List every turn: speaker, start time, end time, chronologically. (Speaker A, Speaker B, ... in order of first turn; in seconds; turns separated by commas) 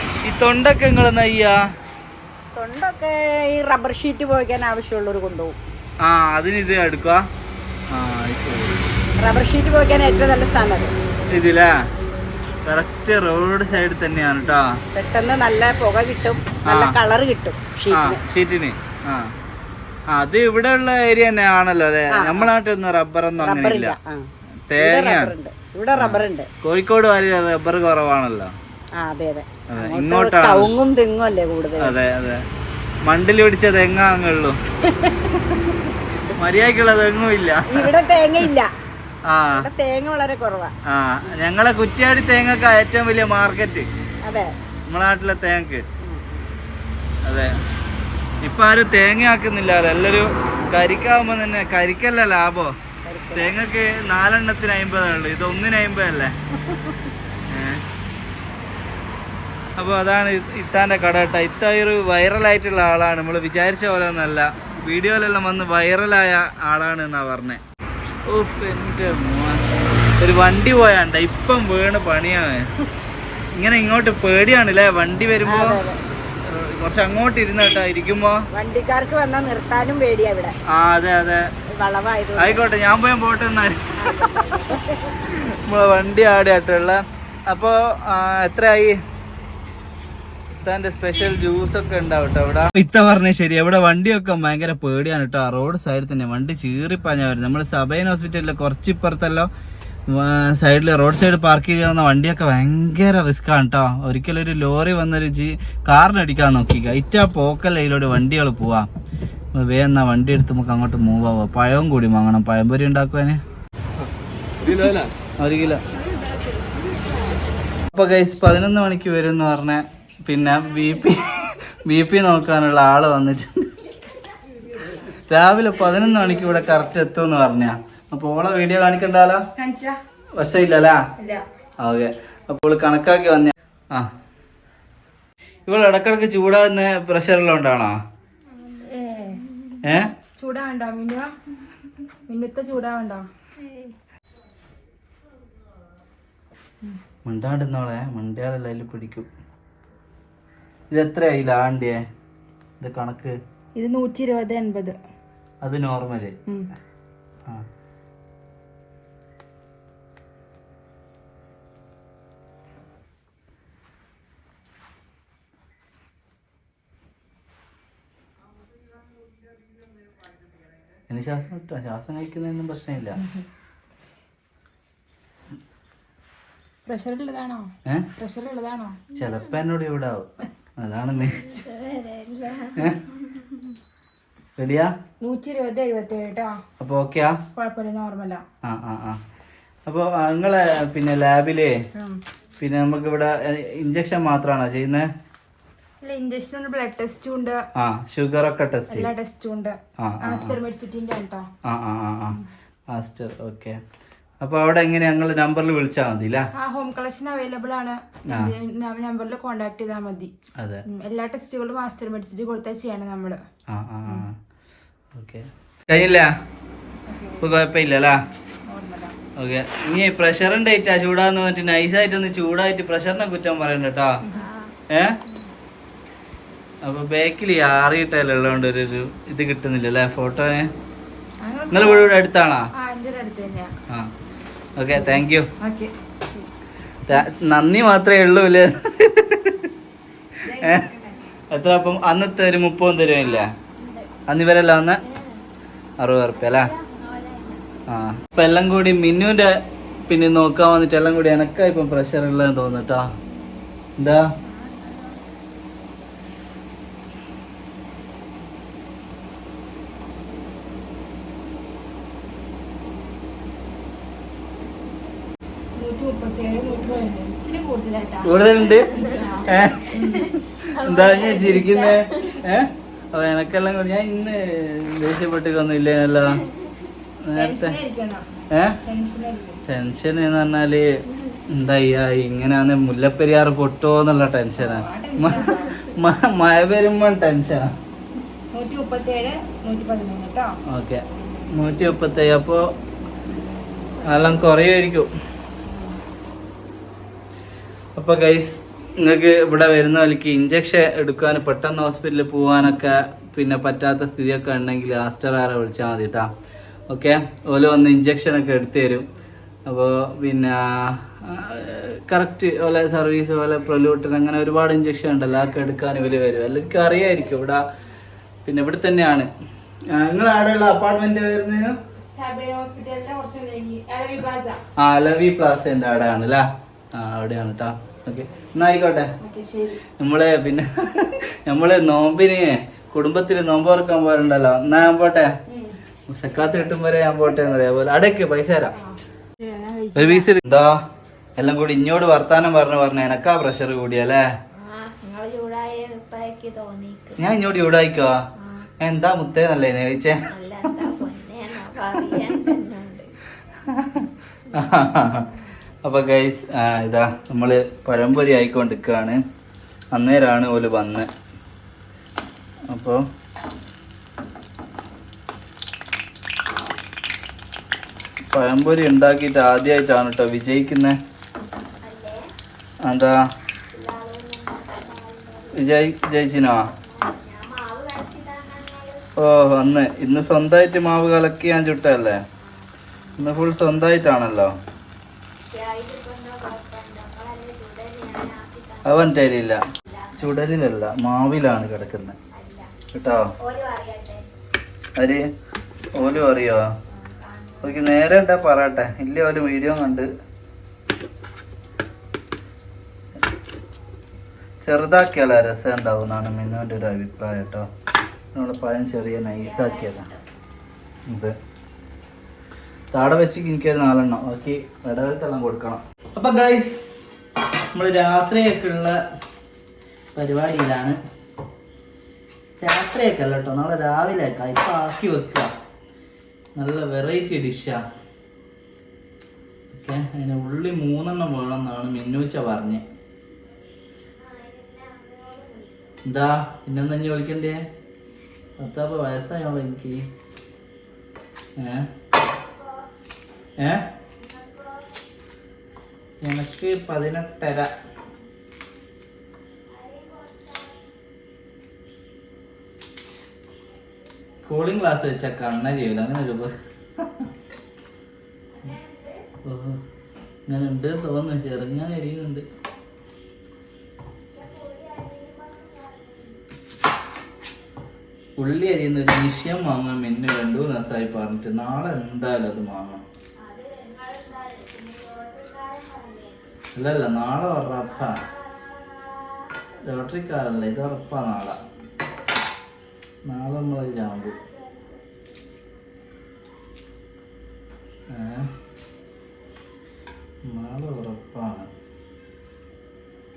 Speaker A: 0.2-1.6, Speaker B: 2.5-5.6, Speaker A: 6.0-7.2, Speaker A: 7.9-8.8, Speaker B: 9.2-10.9, Speaker A: 11.3-11.8, Speaker A: 12.7-14.8, Speaker B: 14.9-18.2, Speaker A: 16.7-16.9, Speaker A: 17.9-19.3, Speaker A: 20.1-23.9, Speaker B: 22.1-22.5, Speaker B: 23.4-26.5, Speaker A: 24.7-25.3, Speaker A: 25.9-28.5, Speaker B: 29.0-31.9, Speaker A: 29.7-30.7, Speaker A: 31.8-32.4, Speaker A: 33.0-34.6, Speaker B: 34.9-35.3, Speaker A: 36.3-37.9, Speaker B: 37.7-38.7, Speaker A: 39.3-39.7, Speaker B: 39.5-40.7, Speaker A: 40.9-43.9, Speaker B: 44.2-44.5, Speaker A: 44.9-45.8, Speaker B: 46.0-46.5, Speaker A: 47.2-47.5, Speaker A: 48.4-52.7, Speaker B: 53.0-53.6, Speaker A: 53.3-56.4, Speaker A: 57.5-57.8, Speaker A: 59.8-67.6, Speaker A: 68.3-69.6, Speaker A: 70.2-72.8, Speaker A: 73.5-75.8, Speaker B: 75.5-76.0, Speaker A: 76.4-78.4, Speaker B: 78.5-80.5, Speaker A: 80.7-81.5, Speaker B: 81.7-82.6, Speaker A: 82.4-84.6, Speaker B: 84.0-85.2, Speaker A: 85.3-89.0, Speaker A: 90.6-99.5, Speaker A: 100.1-108.9, Speaker A: 109.5-113.4, Speaker A: 114.6-115.8, Speaker B: 116.0-117.2, Speaker A: 117.9-123.7, Speaker A: 125.2-129.4, Speaker C: 129.6-130.0, Speaker A: 130.4-131.0, Speaker C: 131.2-131.4, Speaker A: 131.8-134.1, Speaker A: 135.7-138.0, Speaker C: 138.7-139.4, Speaker A: 139.8-140.1, Speaker C: 140.4-141.3, Speaker C: 142.3-143.3, Speaker A: 147.2-149.3, Speaker A: 150.9-152.0, Speaker A: 152.8-153.4, Speaker C: 153.8-155.0, Speaker A: 155.6-156.3, Speaker A: 171.1-173.2, Speaker C: 176.8-179.0, Speaker D: 179.1-179.5, Speaker A: 179.2-181.6, Speaker D: 181.3-183.6, Speaker A: 184.6-184.9, Speaker C: 185.2-186.6, Speaker A: 186.8-187.4, Speaker C: 187.5-188.4, Speaker A: 188.6-189.2, Speaker A: 189.9-191.8, Speaker C: 191.9-192.2, Speaker A: 192.6-195.1, Speaker C: 196.0-197.6, Speaker A: 197.8-199.1, Speaker C: 198.9-201.5, Speaker A: 200.0-200.6, Speaker A: 201.6-203.8, Speaker A: 204.4-206.5, Speaker C: 206.6-210.3, Speaker A: 208.3-208.5, Speaker A: 210.6-210.8, Speaker C: 210.9-213.4, Speaker A: 213.7-214.4, Speaker A: 215.1-216.3, Speaker C: 217.1-217.4, Speaker A: 217.4-218.2, Speaker C: 218.7-219.1, Speaker A: 219.4-224.2, Speaker C: 224.2-224.7, Speaker A: 224.9-225.2, Speaker A: 226.8-230.7, Speaker C: 231.4-232.1, Speaker A: 231.7-232.7, Speaker C: 232.8-233.7, Speaker A: 234.8-235.5, Speaker C: 235.0-236.5, Speaker A: 237.1-239.7, Speaker C: 240.4-241.2, Speaker A: 240.5-240.9, Speaker A: 241.5-243.5, Speaker D: 243.2-244.0, Speaker A: 244.3-245.0, Speaker D: 245.0-245.4, Speaker A: 246.0-246.7, Speaker D: 246.3-247.7, Speaker A: 247.9-253.1, Speaker D: 253.3-253.6, Speaker A: 254.0-254.3, Speaker D: 254.4-255.2, Speaker C: 265.8-270.4, Speaker A: 268.2-269.9, Speaker D: 270.0-272.4, Speaker A: 270.6-276.4, Speaker A: 277.2-277.8, Speaker C: 277.4-278.2, Speaker A: 278.5-278.8, Speaker C: 278.8-279.6, Speaker A: 279.6-280.9, Speaker A: 281.5-287.7, Speaker C: 284.6-285.9, Speaker C: 288.5-290.6, Speaker A: 290.7-292.7, Speaker A: 294.1-295.1, Speaker A: 297.9-306.3, Speaker A: 306.9-309.1, Speaker A: 309.7-317.6, Speaker A: 318.4-319.3, Speaker A: 319.9-321.8, Speaker C: 322.1-324.6, Speaker A: 324.8-329.1, Speaker C: 329.2-329.8, Speaker A: 330.0-335.3, Speaker C: 335.5-335.8, Speaker A: 336.1-338.7, Speaker C: 338.8-340.3, Speaker A: 339.9-340.8, Speaker A: 341.4-344.2, Speaker D: 344.5-347.2, Speaker A: 347.2-348.2, Speaker D: 348.4-348.7, Speaker A: 348.8-350.2, Speaker D: 350.3-353.1, Speaker A: 353.6-355.3, Speaker D: 354.5-355.3, Speaker A: 355.8-359.2, Speaker A: 359.9-361.1, Speaker A: 362.7-363.0, Speaker A: 368.3-371.0, Speaker D: 371.8-372.3, Speaker A: 372.8-373.2, Speaker D: 373.7-375.7, Speaker A: 375.5-376.7, Speaker D: 376.8-379.1, Speaker A: 379.2-382.2, Speaker D: 382.4-383.2, Speaker A: 383.2-384.5, Speaker D: 385.5-389.2, Speaker A: 388.8-389.6, Speaker D: 389.8-390.2, Speaker A: 390.2-392.2, Speaker D: 392.3-392.7, Speaker A: 392.9-393.3, Speaker D: 393.4-394.3, Speaker A: 395.0-395.3, Speaker A: 395.9-396.7, Speaker D: 396.0-397.8, Speaker A: 397.6-400.1, Speaker A: 404.6-407.7, Speaker A: 408.3-410.1, Speaker D: 409.1-410.2, Speaker A: 411.1-411.4, Speaker A: 412.9-416.9, Speaker A: 417.7-418.9, Speaker A: 420.1-421.0, Speaker A: 422.6-425.5, Speaker A: 426.6-427.8, Speaker A: 429.7-432.8, Speaker D: 434.2-436.0, Speaker A: 436.0-437.7, Speaker A: 438.6-440.1, Speaker A: 441.6-441.9, Speaker D: 442.1-442.9, Speaker A: 443.6-443.9, Speaker D: 444.2-444.9, Speaker A: 446.2-447.7, Speaker D: 449.7-450.8, Speaker A: 454.4-457.2, Speaker D: 458.5-459.2, Speaker A: 459.4-459.8, Speaker A: 460.5-462.4, Speaker D: 464.3-466.4, Speaker A: 468.4-473.0, Speaker D: 473.4-476.6, Speaker A: 476.7-478.2, Speaker D: 477.9-479.5, Speaker A: 479.8-481.6, Speaker A: 483.2-484.3, Speaker D: 484.1-485.2, Speaker A: 488.1-488.5, Speaker A: 490.4-491.7